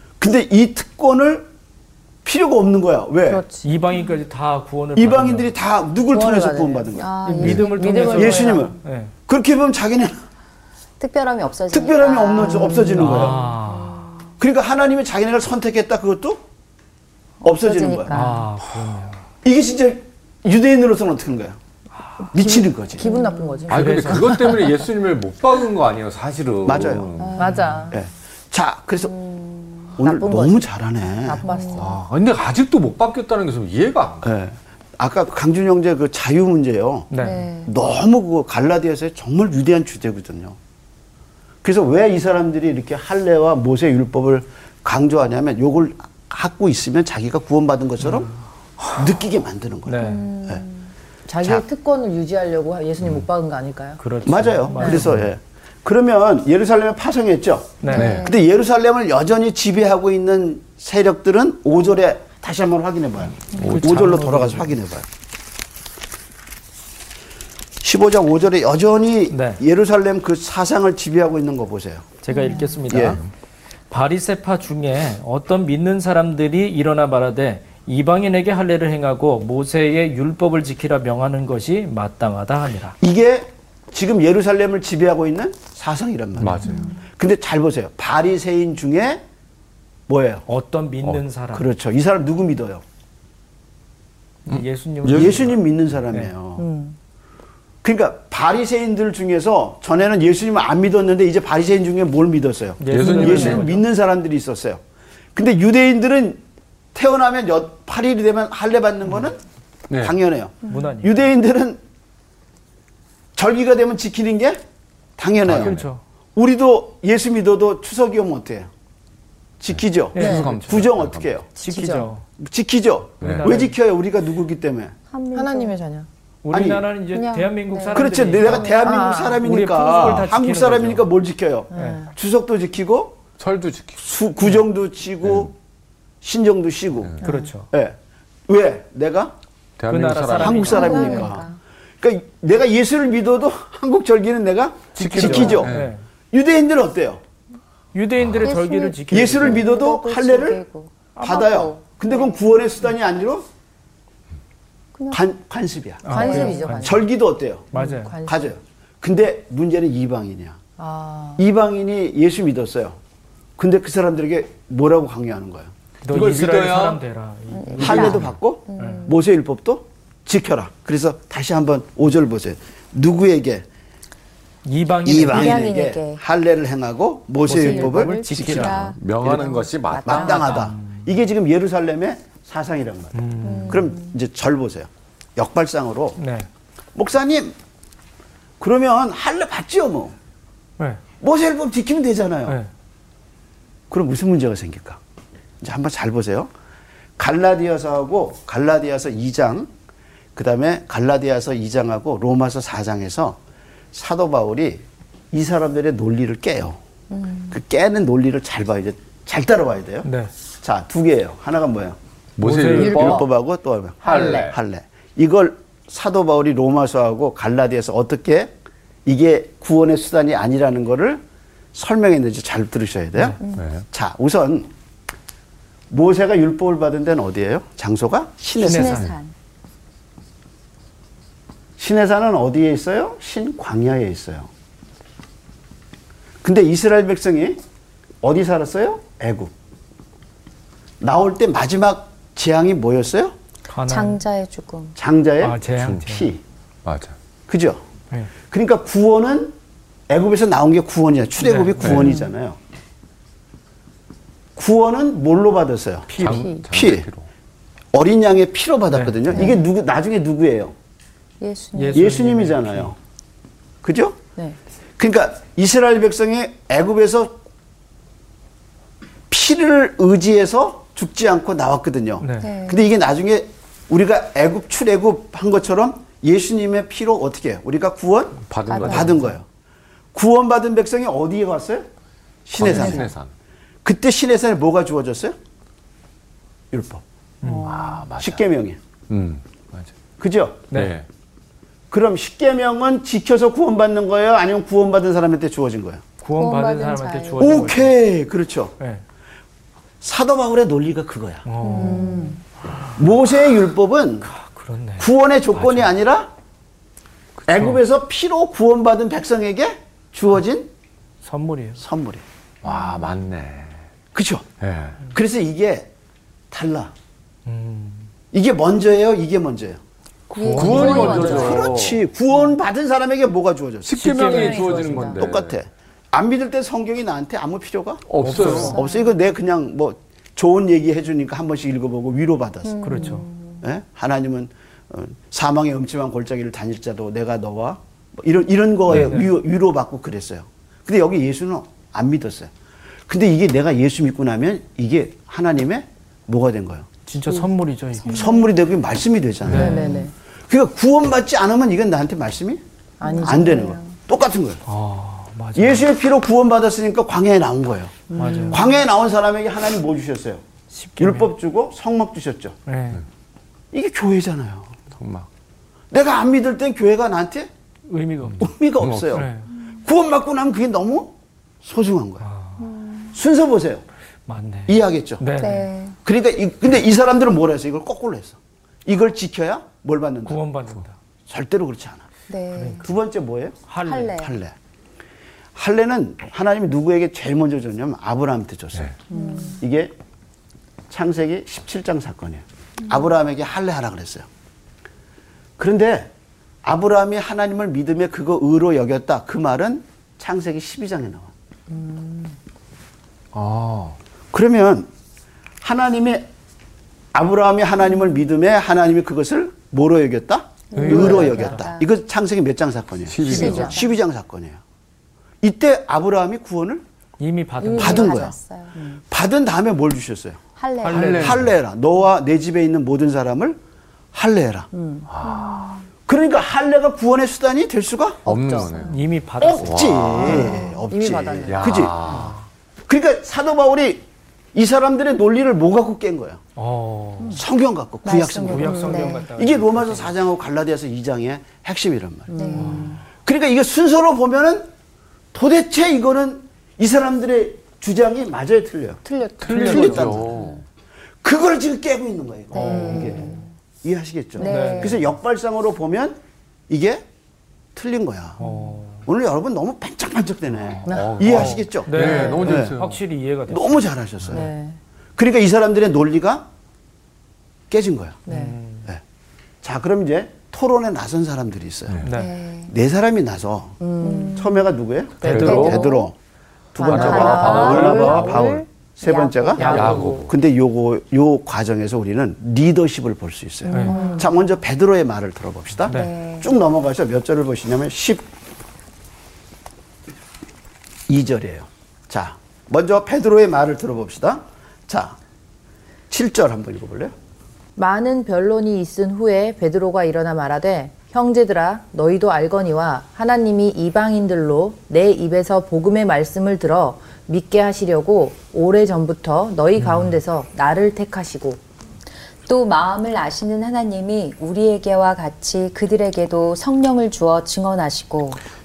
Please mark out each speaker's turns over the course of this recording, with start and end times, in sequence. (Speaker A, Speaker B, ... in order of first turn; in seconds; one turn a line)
Speaker A: 0.2-1.5
Speaker A: 2.2-3.4
Speaker B: 3.2-3.7
Speaker C: 3.6-5.5
Speaker A: 4.9-7.5
Speaker B: 6.1-8.8
Speaker D: 7.0-8.1
Speaker C: 7.2-9.1
Speaker A: 8.0-10.2
Speaker D: 11.0-14.3
Speaker A: 11.7-13.4
Speaker B: 12.4-13.4
Speaker C: 12.8-14.1
Speaker A: 14.4-16.4
Speaker A: 17.4-18.2
Speaker D: 17.4-18.4
Speaker C: 18.1-19.2
Speaker A: 19.4-21.6
Speaker A: 22.3-23.1
Speaker B: 22.3-24.7
Speaker D: 23.0-23.6
Speaker E: 23.7-27.5
Speaker C: 23.7-24.4
Speaker A: 26.6-27.2
Speaker D: 27.2-27.6
Speaker B: 27.4-28.0
Speaker C: 27.4-27.8
Speaker A: 27.9-29.1
Speaker D: 29.2-29.9
Speaker A: 30.0-31.4
Speaker B: 30.0-30.6
Speaker B: 31.2-31.9
Speaker D: 31.4-31.8
Speaker E: 31.7-34.3
Speaker A: 34.2-37.1
Speaker C: 37.1-37.4
Speaker D: 37.2-37.7
Speaker A: 37.6-40.6
Speaker A: 41.6-48.3
Speaker A: 48.9-50.6
Speaker C: 49.9-50.2
Speaker D: 50.0-50.8
Speaker B: 51.3-54.0
Speaker C: 54.0-55.3
Speaker A: 54.2-65.1
Speaker B: 54.8-55.1
Speaker C: 57.8-58.2
Speaker D: 57.9-58.4
Speaker E: 57.9-58.3
Speaker E: 63.5-63.9
Speaker C: 63.6-64.7
Speaker A: 67.8-72.1
Speaker C: 69.3-69.6
Speaker C: 72.2-73.2
Speaker A: 72.9-73.2
Speaker C: 73.9-83.0
Speaker A: 83.0-89.2
Speaker E: 86.4-86.8
Speaker A: 90.1-90.4
Speaker C: 90.5-91.7
Speaker A: 91.5-92.8
Speaker C: 94.5-95.5
Speaker E: 94.5-95.5
Speaker A: 95.0-96.7
Speaker B: 96.6-97.0
Speaker A: 97.8-104.8
Speaker C: 102.8-103.8
Speaker E: 102.9-103.7
Speaker A: 105.3-106.4
Speaker A: 106.9-109.4
Speaker E: 109.9-110.1
Speaker A: 110.0-111.8
Speaker C: 110.7-111.2
Speaker A: 113.3-114.6
Speaker A: 115.2-115.8
Speaker E: 115.4-115.9
Speaker C: 115.5-116.0
Speaker A: 116.3-118.7
Speaker A: 119.6-121.5
Speaker E: 120.1-121.3
Speaker C: 120.1-120.6
Speaker B: 120.2-120.5
Speaker B: 121.6-122.1
Speaker C: 121.6-122.2
Speaker A: 122.4-124.9
Speaker E: 123.2-123.5
Speaker C: 123.2-123.7
Speaker D: 125.1-125.8
Speaker B: 125.3-126.1
Speaker C: 126.4-131.1
Speaker A: 126.5-126.8
Speaker D: 127.1-128.7
Speaker A: 127.9-133.2
Speaker B: 128.7-129.4
Speaker B: 131.7-132.1
Speaker C: 131.7-132.0
Speaker E: 133.4-134.0
Speaker A: 134.0-135.5
Speaker E: 135.2-135.5
Speaker A: 136.2-137.2
Speaker B: 137.2-137.5
Speaker C: 137.2-137.7
Speaker A: 137.7-138.0
Speaker A: 138.5-139.3
Speaker E: 139.8-141.0
Speaker C: 139.9-141.3
Speaker A: 140.3-141.5
Speaker D: 140.6-141.6
Speaker A: 142.0-145.7
Speaker C: 144.9-146.0
Speaker E: 145.0-145.9
Speaker A: 146.3-147.2
Speaker C: 147.9-149.7
Speaker D: 148.4-152.4
Speaker A: 149.1-150.6
Speaker A: 151.2-153.4
Speaker D: 155.0-155.2
Speaker A: 155.1-157.7
Speaker C: 156.0-157.0
Speaker B: 156.1-157.1
Speaker D: 156.2-156.6
Speaker C: 157.7-158.1
Speaker B: 157.7-158.5
Speaker A: 158.2-160.6
Speaker B: 160.8-161.4
Speaker A: 161.4-163.0
Speaker A: 163.6-165.7
Speaker C: 166.0-169.1
Speaker E: 166.1-167.0
Speaker D: 167.5-169.1
Speaker A: 167.8-173.7
Speaker E: 167.9-168.2
Speaker C: 174.6-175.7
Speaker A: 175.0-186.2
Speaker D: 175.2-176.2
Speaker C: 177.4-178.9
Speaker D: 177.5-180.6
Speaker E: 179.0-180.5
Speaker C: 180.3-181.0
Speaker C: 183.1-183.9
Speaker D: 183.4-184.1
Speaker C: 186.2-186.5
Speaker A: 186.9-187.5
Speaker A: 188.6-190.2
Speaker A: 191.2-192.6
Speaker A: 193.9-195.0
Speaker A: 195.6-196.5
Speaker A: 197.2-199.7
Speaker A: 200.3-203.4
Speaker A: 203.9-206.8
Speaker D: 207.1-207.5
Speaker A: 207.5-210.1
Speaker C: 210.0-210.3
Speaker A: 210.6-212.0
Speaker E: 212.4-213.3
Speaker C: 212.4-213.2
Speaker B: 212.8-213.2
Speaker A: 212.8-218.5
Speaker E: 214.0-214.6
Speaker B: 214.0-214.4
Speaker A: 219.0-221.2
Speaker A: 221.7-224.7
Speaker E: 223.5-223.8
Speaker A: 225.9-229.1
Speaker D: 228.6-229.3
Speaker C: 228.6-229.1
Speaker A: 231.8-234.5
Speaker A: 236.4-237.6
Speaker A: 238.2-239.5
Speaker A: 241.0-243.3
Speaker C: 243.7-244.2
Speaker D: 243.8-244.9
Speaker A: 245.0-246.4
Speaker C: 245.4-246.3
Speaker E: 245.8-246.0
Speaker E: 246.8-247.1
Speaker A: 247.5-247.8
Speaker A: 248.5-249.6
Speaker A: 250.1-252.6
Speaker C: 251.4-252.1
Speaker E: 251.8-252.2
Speaker A: 254.6-257.1
Speaker E: 256.2-257.3
Speaker B: 256.2-256.6
Speaker A: 257.9-260.7
Speaker C: 258.9-259.5
Speaker D: 261.4-262.0
Speaker C: 261.7-262.9
Speaker A: 261.9-262.9
Speaker A: 263.8-264.2
Speaker A: 265.0-267.4
Speaker A: 269.3-279.4
Speaker C: 272.2-272.5
Speaker D: 272.4-272.8
Speaker E: 278.5-279.2
Speaker D: 278.7-279.2
Speaker A: 280.1-281.9
Speaker A: 282.4-283.1
Speaker E: 282.5-283.3
Speaker A: 283.8-285.4
Speaker A: 286.7-287.0
Speaker C: 287.4-287.7
Speaker B: 287.5-288.0
Speaker E: 287.6-288.4
Speaker A: 288.2-288.8
Speaker E: 289.1-289.9
Speaker A: 290.2-290.6
Speaker E: 290.7-291.1
Speaker A: 291.9-296.0
Speaker C: 296.2-297.9
Speaker D: 296.4-297.7
Speaker A: 297.4-298.7
Speaker A: 300.0-301.4
Speaker C: 301.4-302.2
Speaker D: 301.6-302.4
Speaker B: 301.7-302.4
Speaker A: 302.9-304.3
Speaker C: 304.2-305.9
Speaker A: 305.0-306.3
Speaker C: 307.4-307.8
Speaker A: 307.5-310.7
Speaker C: 311.2-311.8
Speaker A: 311.8-312.2
Speaker E: 312.6-313.7
Speaker A: 314.1-314.5
Speaker E: 314.6-315.0
Speaker A: 315.1-315.9
Speaker A: 316.5-316.9
Speaker C: 317.4-318.1
Speaker A: 318.3-319.8
Speaker B: 320.3-321.7
Speaker C: 320.4-321.4
Speaker E: 320.5-322.0
Speaker D: 320.6-321.6
Speaker A: 320.6-324.3
Speaker E: 323.9-325.6
Speaker C: 323.9-325.2
Speaker B: 324.2-325.2
Speaker A: 325.1-333.1
Speaker E: 328.1-328.8
Speaker C: 328.2-328.8
Speaker D: 332.7-333.5
Speaker C: 332.8-333.2
Speaker A: 333.6-342.5
Speaker C: 338.9-339.3
Speaker A: 343.1-346.9
Speaker C: 347.1-348.3
Speaker A: 348.1-352.6
Speaker C: 349.4-350.1
Speaker B: 349.5-350.1
Speaker B: 353.0-353.8
Speaker D: 353.1-353.7
Speaker A: 353.2-354.6
Speaker C: 354.6-355.9
Speaker A: 355.5-360.4
Speaker B: 358.1-358.8
Speaker C: 358.2-358.6
Speaker C: 360.7-361.3
Speaker A: 361.0-362.6
Speaker C: 362.6-363.0
Speaker A: 363.7-364.7
Speaker E: 364.9-365.3
Speaker A: 365.9-367.5
Speaker C: 367.9-368.5
Speaker A: 368.4-369.3
Speaker E: 368.8-369.3
Speaker C: 369.1-369.5
Speaker A: 369.8-372.2
Speaker C: 372.2-372.6
Speaker D: 372.7-373.0
Speaker A: 373.1-373.8
Speaker C: 374.3-375.7
Speaker A: 374.7-375.2
Speaker D: 375.4-375.9
Speaker A: 376.0-380.4
Speaker C: 380.2-380.9
Speaker A: 381.3-382.1
Speaker D: 382.3-382.8
Speaker C: 382.6-382.8
Speaker A: 382.8-384.5
Speaker C: 383.7-384.1
Speaker D: 383.8-384.3
Speaker A: 385.5-388.9
Speaker D: 389.1-389.6
Speaker B: 389.1-389.6
Speaker A: 389.6-389.9
Speaker A: 390.9-394.3
Speaker A: 395.6-396.1
Speaker A: 396.6-401.3
Speaker B: 401.7-402.3
Speaker E: 403.3-404.0
Speaker A: 404.3-404.9
Speaker A: 405.6-406.3
Speaker A: 407.1-414.6
Speaker D: 410.7-411.9
Speaker E: 410.8-411.1
Speaker C: 410.8-411.6
Speaker E: 413.1-413.8
Speaker D: 413.3-413.8
Speaker B: 413.3-413.8
Speaker A: 415.4-416.8
Speaker C: 417.2-418.2
Speaker D: 417.6-418.7
Speaker A: 417.8-418.4
Speaker A: 419.1-420.4
Speaker D: 420.6-421.3
Speaker C: 420.8-421.4
Speaker E: 420.8-421.5
Speaker A: 421.1-423.6
Speaker A: 424.1-424.7
Speaker B: 424.7-425.1
Speaker E: 425.1-425.8
Speaker D: 425.4-425.7
Speaker A: 426.1-428.2
Speaker B: 428.2-428.8
Speaker E: 428.2-429.0
Speaker C: 428.9-429.9
Speaker A: 429.4-432.2
Speaker E: 429.6-430.5
Speaker B: 430.2-431.9
Speaker E: 431.4-432.4
Speaker C: 432.1-432.4
Speaker A: 432.9-436.4
Speaker C: 436.6-437.4
Speaker A: 437.3-442.7
Speaker D: 438.0-439.3
Speaker C: 438.4-440.1
Speaker B: 438.7-439.0
Speaker B: 442.3-442.9
Speaker D: 442.3-442.9
Speaker C: 442.6-443.0
Speaker A: 443.2-444.7
Speaker A: 445.3-450.5
Speaker B: 449.1-449.9
Speaker E: 449.4-450.6
Speaker C: 449.5-450.1
Speaker A: 451.2-457.1
Speaker D: 452.5-453.4
Speaker B: 452.6-453.3
Speaker C: 452.6-453.1
Speaker D: 454.4-455.0
Speaker C: 454.4-455.0
Speaker A: 457.7-458.4
Speaker C: 458.4-459.0
Speaker A: 459.0-462.7
Speaker E: 460.7-463.0
Speaker B: 460.9-461.2
Speaker C: 461.2-463.9
Speaker B: 461.9-462.4
Speaker A: 463.5-464.5
Speaker B: 464.3-464.8
Speaker A: 465.2-466.5
Speaker A: 467.7-468.2
Speaker B: 468.3-468.6
Speaker C: 468.3-468.9
Speaker A: 469.6-472.0
Speaker C: 472.0-472.3
Speaker D: 472.1-472.7
Speaker A: 472.6-476.1
Speaker B: 473.8-474.5
Speaker D: 474.0-474.5
Speaker C: 475.2-475.7
Speaker E: 475.2-475.9
Speaker B: 475.2-476.0
Speaker D: 475.4-476.1
Speaker A: 476.7-488.3
Speaker B: 476.8-480.2
Speaker E: 476.8-478.4
Speaker D: 476.9-477.8
Speaker C: 477.0-478.4
Speaker D: 479.1-479.8
Speaker C: 479.6-480.1
Speaker E: 479.7-480.3
Speaker C: 483.7-484.0
Speaker B: 483.7-484.3
Speaker D: 483.8-484.2
Speaker C: 485.9-486.1
Speaker D: 485.9-486.5
Speaker A: 491.1-495.2
Speaker A: 496.1-497.1
Speaker B: 497.8-511.6
Speaker C: 509.8-510.2
Speaker D: 512.5-518.4